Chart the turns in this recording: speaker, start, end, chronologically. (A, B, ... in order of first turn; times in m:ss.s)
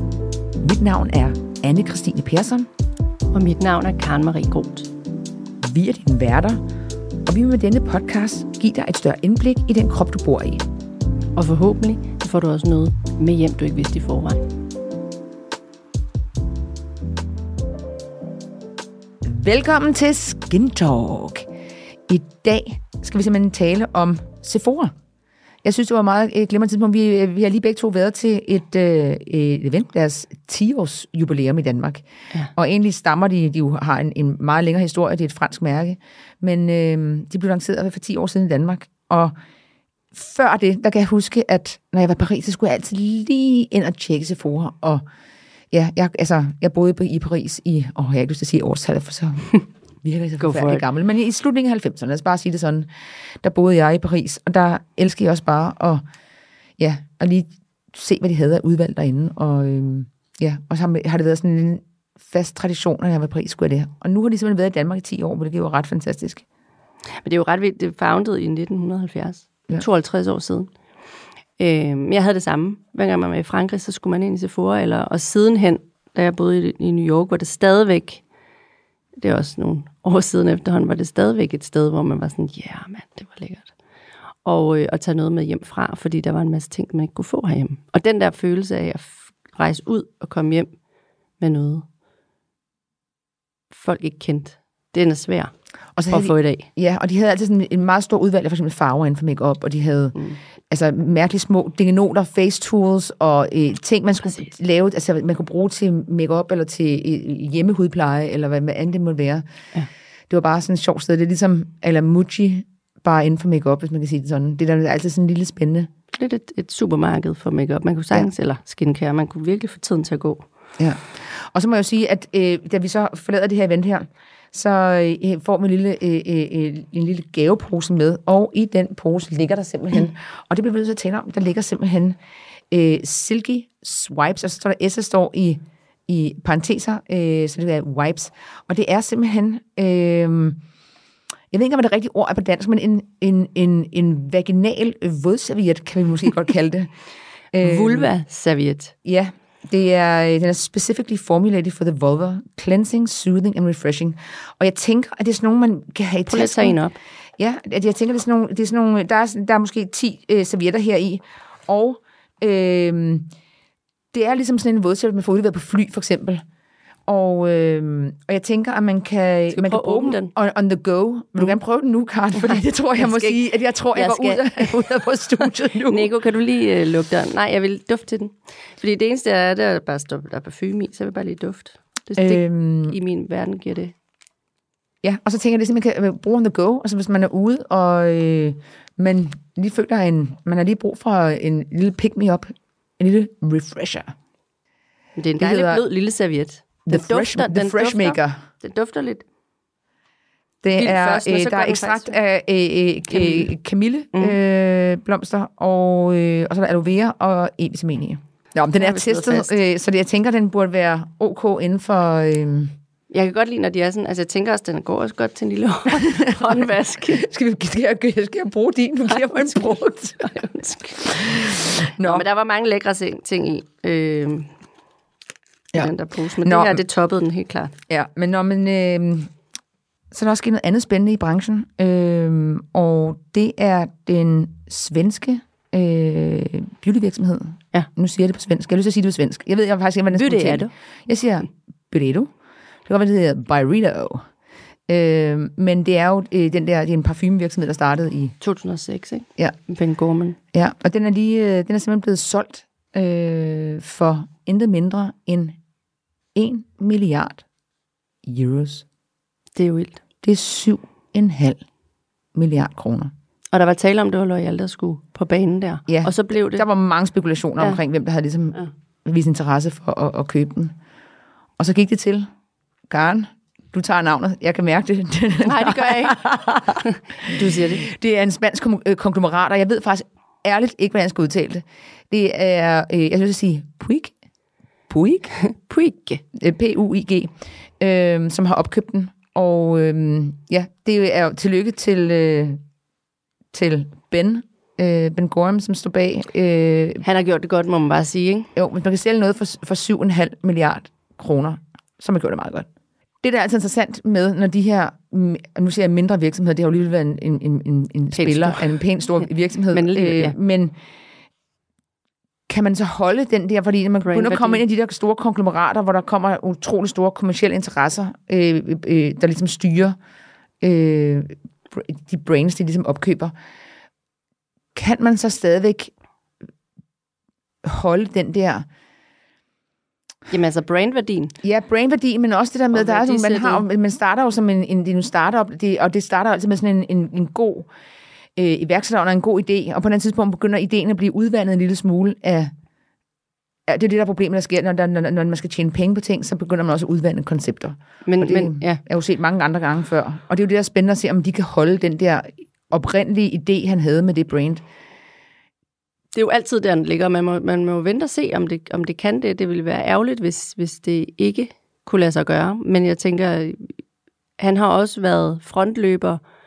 0:00.6-0:02.7 A
0:03.3-0:04.9 B
0:05.6-0:06.6 A
0:07.3-0:10.6 A
0:11.4-0:14.5 B
0:19.2-0:21.4 A
0:22.1-0:24.9 A
0:25.6-0:39.3 A
0:40.1-0:45.0 A
0:45.7-0:52.9 A
0:50.4-0:50.8 B
0:53.4-0:56.0 A
0:56.8-1:06.4 A
1:07.2-1:10.7 B
1:11.6-1:18.2 B
1:19.2-1:23.7 B
1:24.4-1:30.8 B
1:31.4-1:31.9 B
1:33.7-1:36.7 B
1:36.0-1:49.4 A
1:50.3-1:55.9 A
1:56.1-2:00.4 B
2:00.8-2:12.2 A
2:12.7-2:20.6 A
2:21.5-2:26.9 A
2:27.5-2:28.1 A
2:27.6-2:28.9 B
2:29.0-2:36.8 A
2:36.3-2:37.0 B
2:37.4-2:43.3 A
2:44.1-2:46.4 A
2:47.1-2:56.1 A
2:49.5-2:50.3 B
2:52.5-3:03.9 B
3:02.2-3:03.0 A
3:05.0-3:14.1 A
3:15.2-3:19.2 B
3:15.4-3:15.8 A
3:16.9-3:18.4 A
3:20.6-3:32.7 A
3:20.7-3:22.2 B
3:23.1-3:23.5 B
3:28.8-3:29.5 B
3:33.1-3:37.3 B
3:37.2-3:40.3 A
3:39.1-3:44.5 B
3:41.1-3:42.2 A
3:45.8-3:47.7 B
3:46.4-3:46.8 A
3:47.9-3:49.3 A
3:50.1-4:02.3 A
4:00.1-4:00.7 B
4:02.9-4:04.2 A
4:04.9-4:08.3 A
4:08.4-4:10.4 B
4:10.5-4:15.6 A
4:16.3-4:17.4 A
4:18.2-4:18.8 A
4:19.6-4:20.0 B
4:20.2-4:21.6 A
4:22.3-4:23.1 A
4:23.5-4:26.6 B
4:25.9-4:30.7 A
4:31.6-4:32.3 A
4:32.9-4:36.8 A
4:35.4-4:36.2 B
4:36.8-4:37.9 B
4:37.8-4:44.2 A
4:44.9-4:45.4 A
4:45.4-4:46.2 B
4:46.3-4:52.6 A
4:53.5-4:57.0 A
4:57.0-4:58.5 B
4:58.6-5:02.7 A
5:03.2-5:10.7 A
5:08.1-5:08.8 B
5:09.7-5:10.3 B
5:12.5-5:20.0 A
5:14.0-5:14.6 B
5:20.6-5:23.3 A
5:24.8-5:25.9 A
5:27.6-5:28.6 A
5:30.3-5:31.4 B
5:31.4-5:37.7 A
5:32.7-5:33.6 B
5:38.4-5:42.5 A
5:43.7-5:54.6 A
5:48.1-5:48.8 B
5:56.1-6:03.7 B
6:04.4-6:06.2 B